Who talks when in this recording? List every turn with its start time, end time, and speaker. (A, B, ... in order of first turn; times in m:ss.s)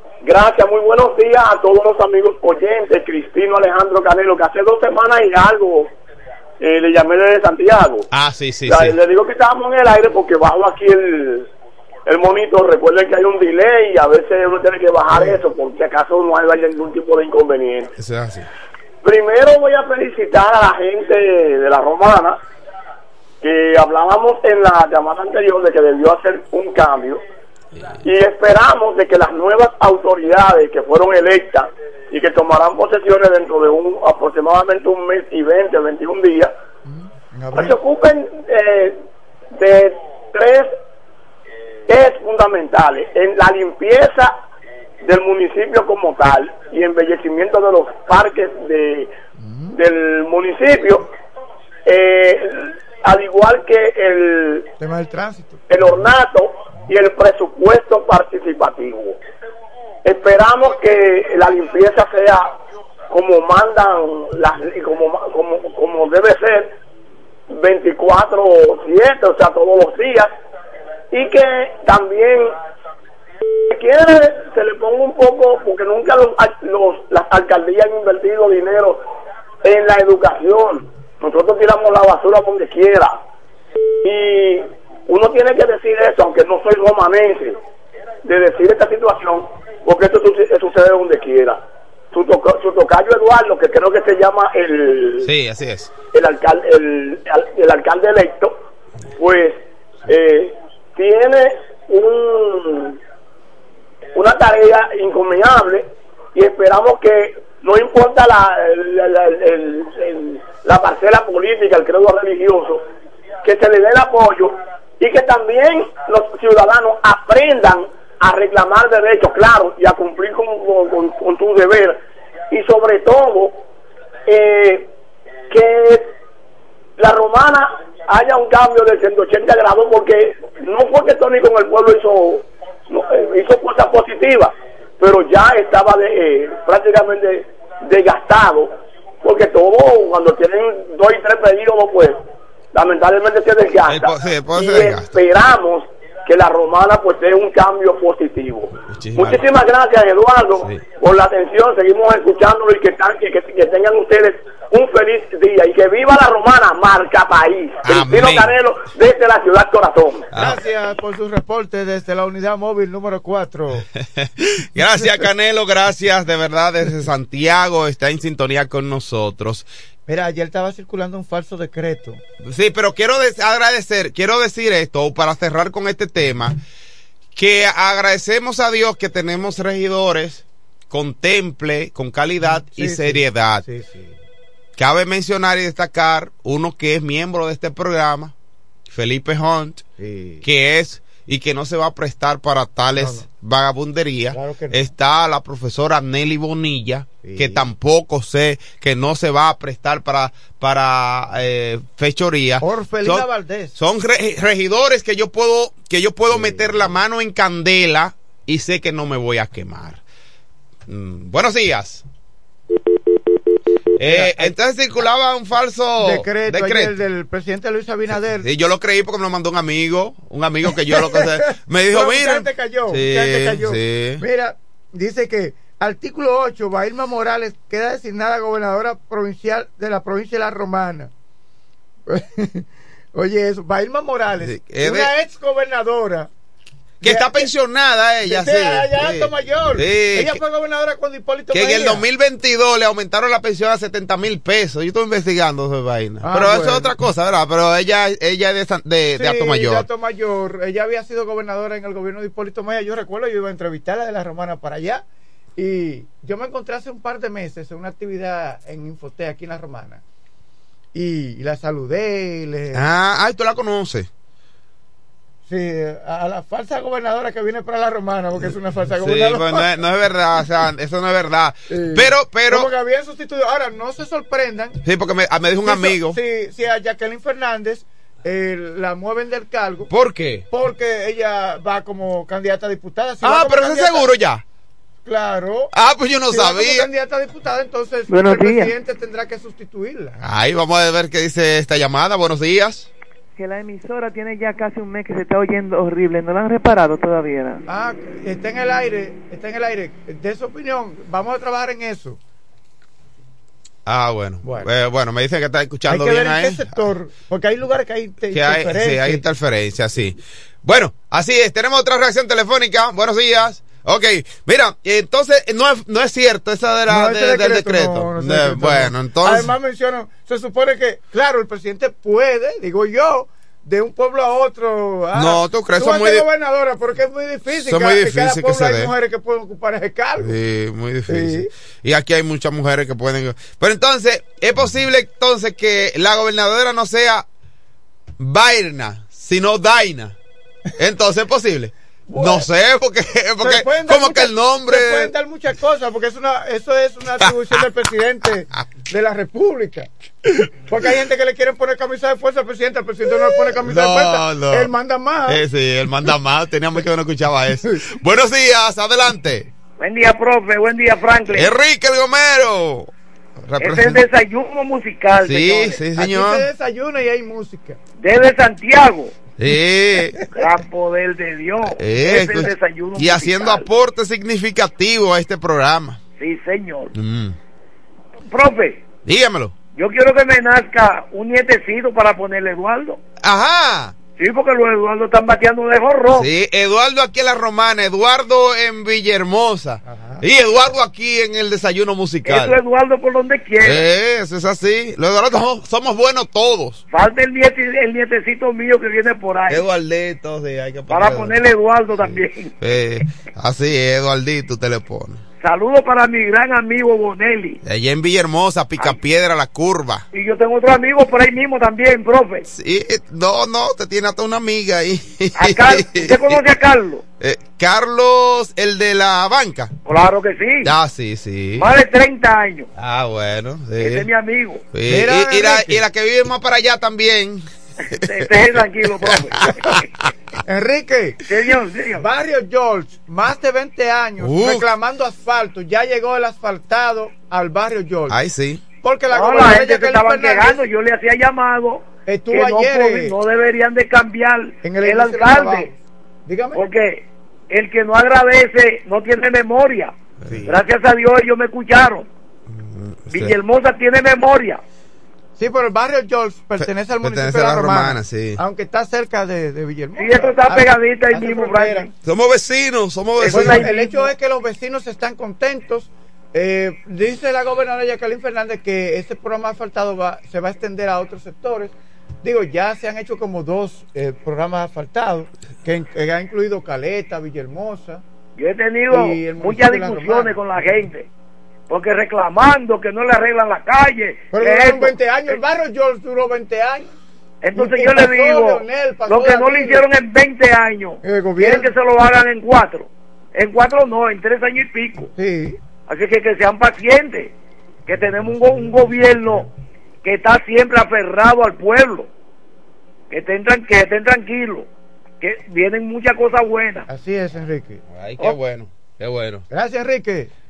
0:00.2-0:05.9 A
0:06.6-0:08.1 A
0:08.1-0:09.0 B
0:08.6-0:11.5 A
0:12.0-0:17.9 A
0:18.0-0:18.5 B
0:19.0-0:22.4 A
0:23.4-0:27.2 A
0:28.0-0:36.5 A
0:36.9-0:37.8 C
0:37.5-0:39.0 A
0:39.5-0:40.7 A
0:41.9-0:44.4 A
0:45.0-0:49.1 A
0:49.4-0:49.8 C
0:49.7-0:51.1 A
0:51.8-0:54.7 A
0:54.8-0:55.6 C
0:55.7-0:59.2 A
1:00.0-1:02.5 A
1:03.1-1:06.7 A
1:07.5-1:10.3 A
1:11.1-1:12.5 A
1:13.7-1:19.0 A
1:19.6-1:23.2 A
1:24.0-1:27.6 A
1:28.2-1:35.3 A
1:35.2-1:35.9 B
1:36.1-1:38.6 A
1:39.2-1:43.0 A
1:44.1-1:52.8 A
1:53.4-2:02.0 A
2:02.5-2:03.6 A
2:04.3-2:04.9 A
2:05.5-2:06.1 A
2:07.0-2:40.3 A
2:23.9-2:25.2 B
2:28.8-2:29.5 B
2:37.8-2:38.5 B
2:40.3-2:40.6 B
2:40.3-2:43.8 C
2:44.0-2:49.7 B
2:50.1-2:52.2 C
2:52.4-2:56.6 B
2:57.3-3:03.6 B
3:02.4-3:04.1 C
3:04.8-3:08.3 B
3:08.9-3:09.8 B
3:10.0-3:10.4 C
3:10.4-3:30.0 B
3:13.0-3:13.2 C
3:14.3-3:14.9 C
3:17.2-3:17.7 C
3:22.6-3:23.8 C
3:26.3-3:27.0 C
3:30.9-3:32.0 B
3:34.0-3:36.9 B
3:34.0-3:34.5 C
3:36.0-3:38.5 C
3:38.4-3:44.2 B
3:40.9-3:51.1 C
3:52.1-3:56.3 C
3:54.4-3:55.1 B
3:57.0-3:57.4 C
3:57.0-4:00.4 B
3:58.2-4:02.0 C
4:01.5-4:09.9 B
4:06.2-4:06.9 C
4:09.2-4:15.0 C
4:15.6-4:20.0 C
4:20.9-4:22.8 C
4:22.7-4:24.1 B
4:25.5-4:29.7 C
4:29.0-4:32.7 B
4:31.7-4:34.8 C
4:34.8-4:36.2 B
4:35.6-4:39.9 C
4:39.9-4:40.4 B
4:40.5-4:44.1 C
4:43.2-4:44.4 B
4:45.0-4:45.7 C
4:45.7-4:46.9 B
4:46.3-4:50.2 C
4:48.1-4:48.7 D
4:50.2-4:52.9 B
4:53.4-4:57.6 D
4:57.7-5:02.2 C
5:03.8-5:06.8 B
5:05.9-5:09.2 C
5:08.3-5:19.5 B
5:16.9-5:30.3 C
5:25.1-5:26.3 B
5:27.5-5:28.9 B
5:30.2-5:37.2 B
5:31.1-5:31.5 C
5:38.2-5:40.2 B
5:40.8-5:45.1 B
5:42.1-5:42.5 C
5:43.4-5:49.9 C
5:47.2-5:47.7 B
5:50.7-5:55.4 C
5:53.5-5:54.7 B
5:55.3-5:59.5 B
5:59.8-6:01.5 E
6:01.3-6:02.9 B
6:03.4-6:04.0 B
6:03.6-6:05.8 E
6:05.2-6:06.4 B
6:06.0-6:07.8 C
6:08.0-6:09.1 E
6:09.4-6:10.3 B
6:10.3-6:13.7 E
6:11.6-6:16.0 B
6:16.2-6:16.9 E
6:16.9-6:17.4 B
6:18.3-6:18.8 E
6:19.0-6:19.5 B
6:19.7-6:23.0 E
6:23.2-6:23.9 B
6:24.2-6:26.3 E
6:26.1-6:32.6 B
6:29.8-6:30.2 C
6:32.2-6:33.9 E
6:33.6-6:36.8 B
6:36.9-6:39.6 E
6:39.5-6:41.4 B
6:40.9-6:42.5 E
6:42.6-6:45.2 B
6:45.4-6:47.6 E
6:47.6-6:50.0 B
6:50.1-6:52.4 E
6:52.5-6:56.4 B
6:55.3-6:57.0 E
6:57.2-6:59.7 B
6:59.8-7:00.7 E
7:00.6-7:01.7 B
7:01.6-7:02.7 E
7:02.8-7:04.1 B
7:03.8-7:04.6 E
7:04.7-7:07.4 B
7:04.9-7:05.8 C
7:07.9-7:09.8 E
7:08.0-7:09.8 B
7:10.4-7:11.2 C
7:11.2-7:12.0 E
7:11.9-7:18.2 C
7:14.2-7:14.7 B
7:18.1-7:18.6 B
7:18.8-7:20.6 C
7:19.1-7:25.7 E
7:22.0-7:23.2 C
7:24.6-7:26.6 C
7:26.5-7:29.9 E
7:30.2-7:30.6 B
7:30.5-7:32.1 E
7:32.5-7:33.4 B
7:33.1-7:34.6 E
7:35.4-7:41.9 C
7:36.6-7:38.4 B
7:39.9-7:41.9 E
7:42.0-7:43.7 B
7:43.2-7:44.1 E
7:43.3-7:58.0 C
7:58.4-8:01.1 E
7:58.9-8:00.4 C
8:01.7-8:05.3 E
8:04.3-8:06.9 C
8:07.4-8:15.1 E
8:07.5-8:09.8 C
8:11.0-8:11.7 C
8:15.2-8:15.6 C
8:15.9-8:17.3 E
8:17.8-8:19.5 E
8:20.0-8:22.1 E
8:23.1-8:24.7 E
8:25.2-8:26.9 E
8:26.9-8:28.3 C
8:27.9-8:29.4 B
8:29.5-8:30.3 C